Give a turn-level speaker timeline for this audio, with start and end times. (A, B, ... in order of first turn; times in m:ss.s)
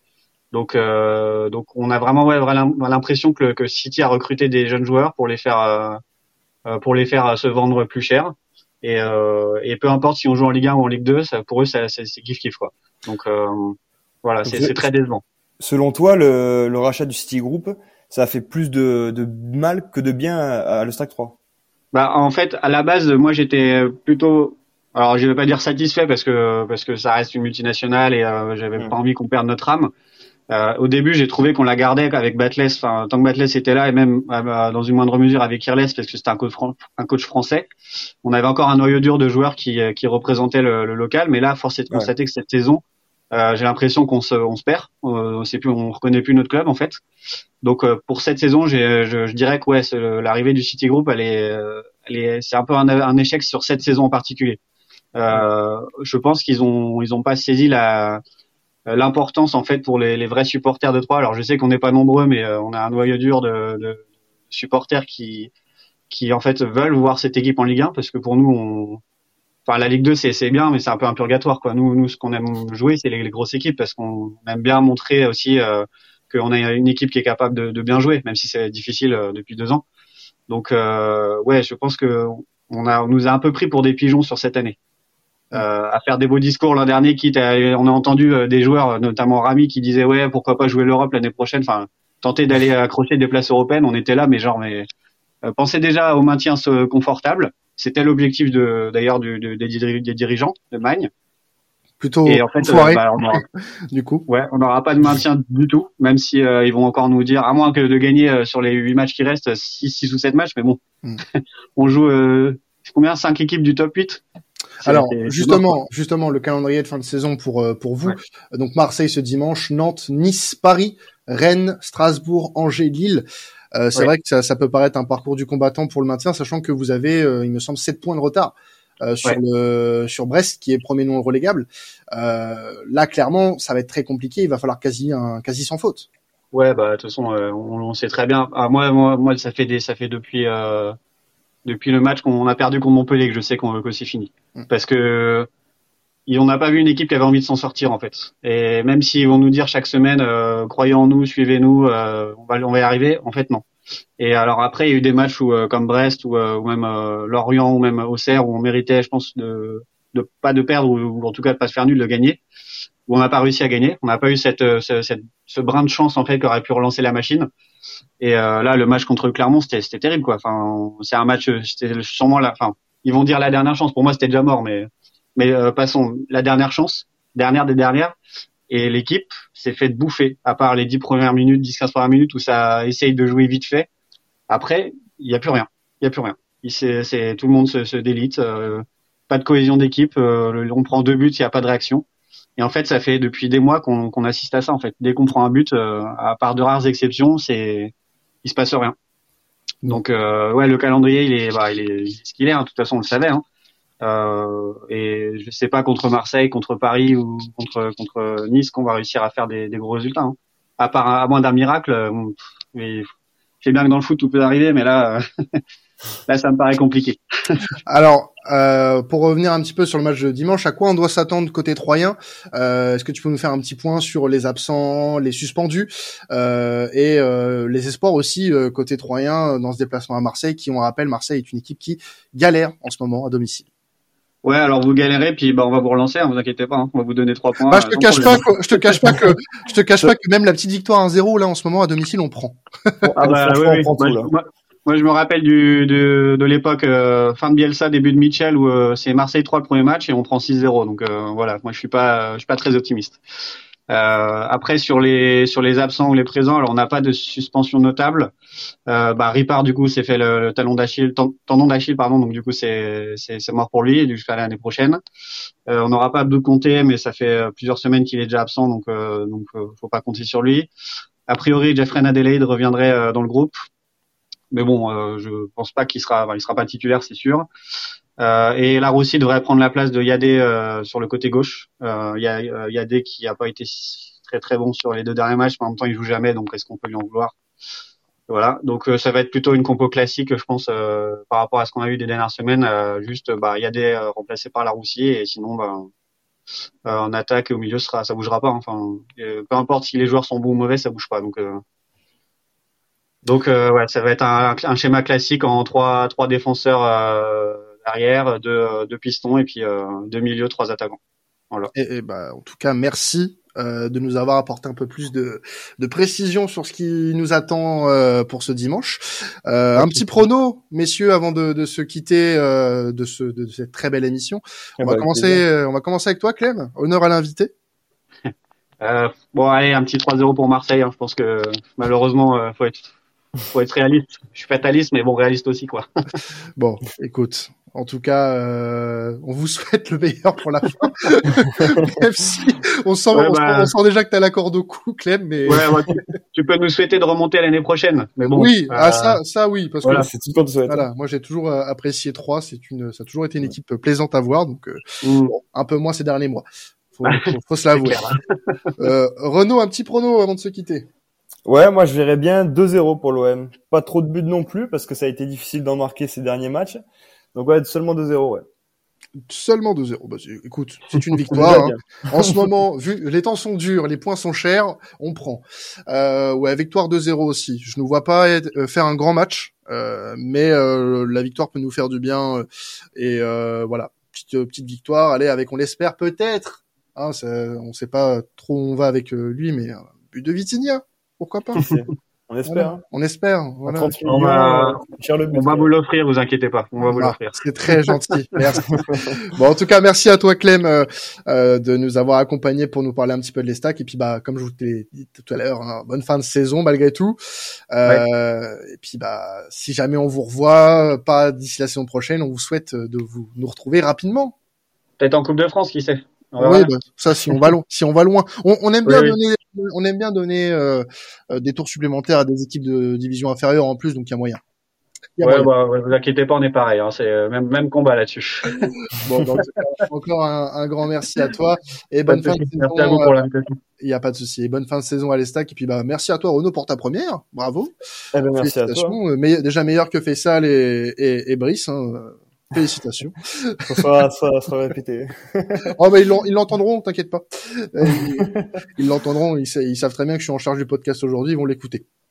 0:00.5-0:06.0 A
0:06.7-0:15.2 A
0:15.6-0:21.4 B
0:21.9-0:29.9 A
0:30.5-0:37.7 A
0:38.2-0:47.0 A
0:47.6-0:54.6 A
0:55.2-0:58.2 A
0:58.9-1:05.5 A
1:06.1-1:09.0 A
1:09.7-1:19.8 A
1:20.5-1:24.8 A
1:25.5-1:34.9 A
1:35.4-1:41.1 A
1:42.0-1:44.3 C
1:42.3-1:43.4 A
1:44.3-1:50.8 A
1:51.4-1:54.2 A
1:54.8-1:55.8 A
1:54.8-2:03.2 C
2:03.8-2:16.1 C
2:16.5-2:21.0 A
2:21.6-2:25.5 A
2:26.3-2:33.6 A
2:34.2-2:42.4 A
2:43.1-2:47.5 A
2:48.2-2:58.2 A
2:58.7-3:03.9 A
3:04.5-3:12.0 A
3:12.6-3:17.9 A
3:18.4-3:19.0 A
3:19.9-3:23.4 A
3:24.0-3:33.1 A
3:33.6-3:35.6 A
3:36.3-3:37.6 A
3:37.9-3:53.7 C
3:54.4-3:58.4 A
3:57.7-4:03.1 C
4:03.0-4:04.3 B
4:03.2-4:13.2 A
4:13.9-4:18.3 A
4:18.9-4:25.0 A
4:25.7-4:30.7 A
4:31.3-4:33.5 A
4:34.5-4:37.5 A
4:38.2-4:47.4 A
4:48.3-4:55.9 A
4:56.9-5:01.6 A
5:03.2-5:11.0 A
5:11.7-5:27.5 C
5:24.8-5:25.4 B
5:28.8-5:32.9 A
5:33.5-5:35.9 A
5:36.6-5:45.7 C
5:43.1-5:43.7 A
5:45.5-5:49.2 A
5:48.3-5:50.1 C
5:49.9-5:50.8 B
5:50.7-5:58.1 C
5:55.0-5:55.3 A
5:57.0-5:58.2 A
5:58.8-6:00.9 C
6:01.5-6:06.8 B
6:07.4-6:08.4 B
6:09.3-6:22.4 C
6:11.3-6:12.4 B
6:23.0-6:31.6 C
6:31.6-6:32.8 B
6:32.5-6:34.0 C
6:33.7-6:35.7 B
6:34.0-6:34.8 A
6:35.3-6:37.4 A
6:36.9-6:47.2 C
6:47.7-6:54.4 C
6:55.0-6:56.7 A
6:56.4-7:04.4 C
6:58.9-6:59.2 A
7:05.2-7:05.5 C
7:05.2-7:08.7 A
7:09.0-7:13.2 C
7:09.4-7:09.6 A
7:12.1-7:13.6 A
7:13.8-7:17.7 C
7:18.1-7:19.0 B
7:18.4-7:23.9 C
7:23.7-7:25.8 B
7:25.7-7:31.8 C
7:28.2-7:28.5 B